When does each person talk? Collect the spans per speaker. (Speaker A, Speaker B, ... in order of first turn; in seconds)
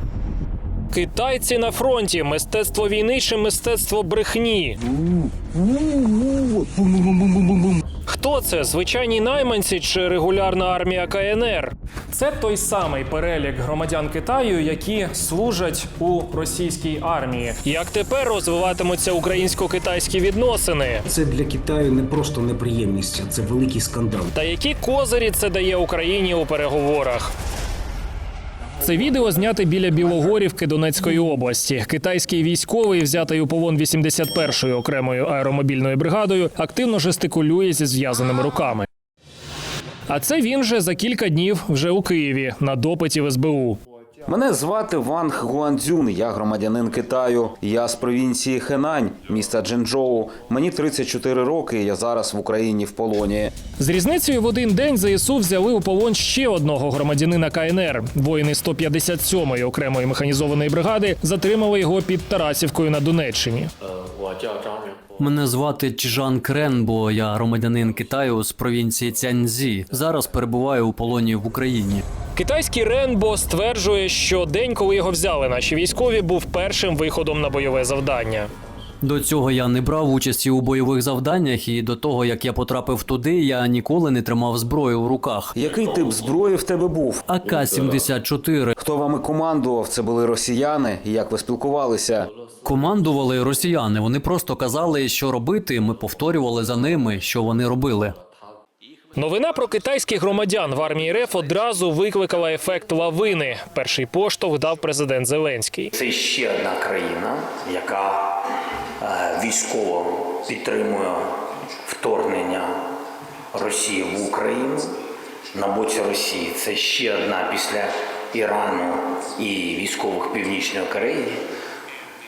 Speaker A: 0.9-4.8, 8.1-21.1, 24.3-27.3, 28.8-38.9, 40.1-43.8, 53.8-63.7, 72.3-78.5, 99.1-105.9
Speaker B: 5.4-5.9, 6.7-7.2, 21.1-24.3
Speaker C: 44.3-53.5, 85.5-88.1, 88.8-92.3
Speaker D: 65.2-72.0, 79.0-85.5, 87.2-88.7, 92.6-98.2
Speaker E: 105.9-108.4, 109.0-112.9, 113.5-114.9, 115.5-121.4